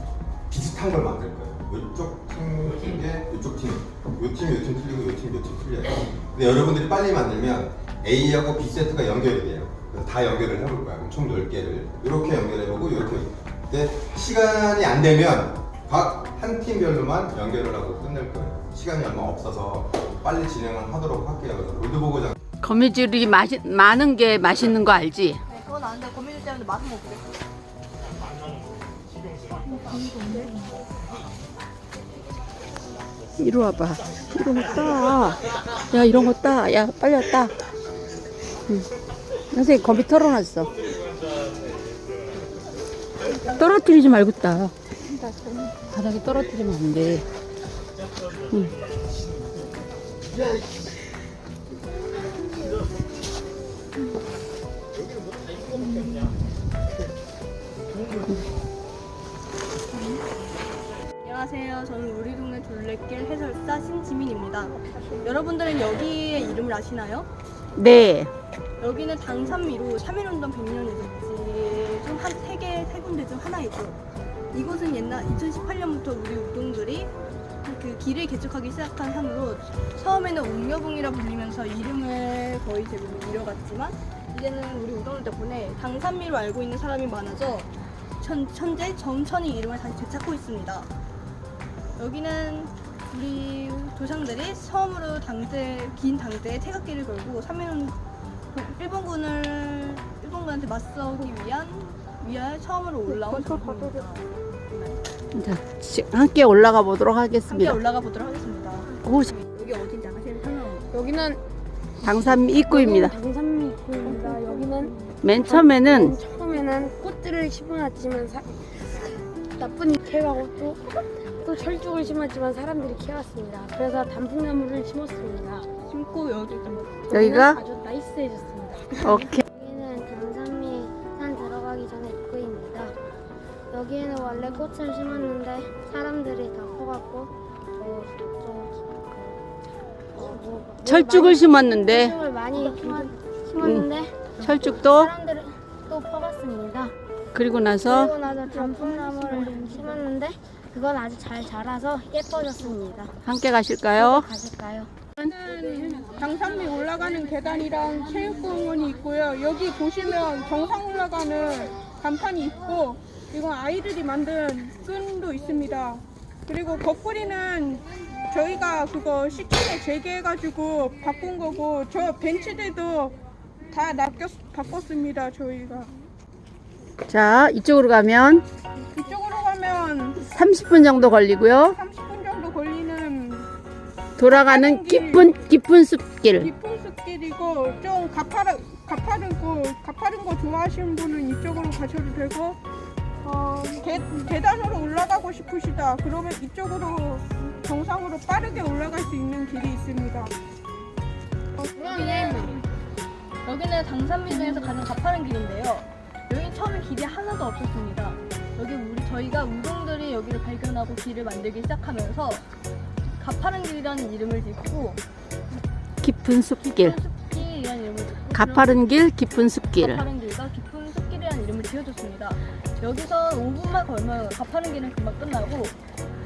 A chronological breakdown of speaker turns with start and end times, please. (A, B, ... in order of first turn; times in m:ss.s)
0:00.5-0:22.4 A
0:22.6-0:25.4 B
0:25.5-0:27.3 C
0:29.7-0:30.6 C
0:33.4-0:37.5 B
0:39.5-0:40.7 B
0:43.5-0:44.7 B
0:45.9-0:47.2 B
1:01.2-1:07.3 C
1:04.8-1:05.1 D
1:07.7-1:08.3 B
1:08.8-1:14.0 C
1:14.5-1:17.1 C
1:17.6-1:27.7 C
1:28.2-1:30.9 C
1:32.0-1:38.0 C
1:38.5-1:45.0 C
1:43.1-1:44.1 D
1:45.3-1:47.8 B
1:47.5-1:50.9 C
1:49.0-1:49.3 B
1:50.9-1:51.4 E
1:52.0-1:53.2 B
1:52.6-1:54.9 E
1:54.0-1:54.9 D
1:55.2-1:56.2 B
1:55.4-1:58.7 E
1:59.6-2:05.6 E
2:05.8-2:07.0 C
2:07.1-2:09.3 E
2:07.1-2:07.6 B
2:09.0-2:09.4 B
2:09.4-2:12.9 F
2:13.7-2:19.4 F
2:20.1-2:26.9 F
2:20.8-2:22.2 B
2:22.7-2:23.1 C
2:23.6-2:25.1 B
2:27.3-2:28.1 B
2:27.8-2:33.1 F
2:28.5-2:29.0 C
2:33.2-2:34.3 B
2:33.9-2:34.9 F
2:35.2-2:53.1 D
2:53.7-2:55.9 D
2:57.1-2:58.4 B
2:58.9-3:00.2 D
3:00.2-3:01.8 B
3:01.6-3:03.5 D
3:04.2-3:06.5 B
3:04.2-3:05.4 D
3:06.4-3:12.6 D
3:13.2-3:20.3 D
3:21.8-3:22.6 D
3:22.1-3:22.6 C
3:23.4-3:32.5 C
3:33.2-3:35.0 C
3:36.0-3:37.0 B
3:36.6-3:38.8 C
3:38.3-3:40.0 B
3:39.8-3:45.7 C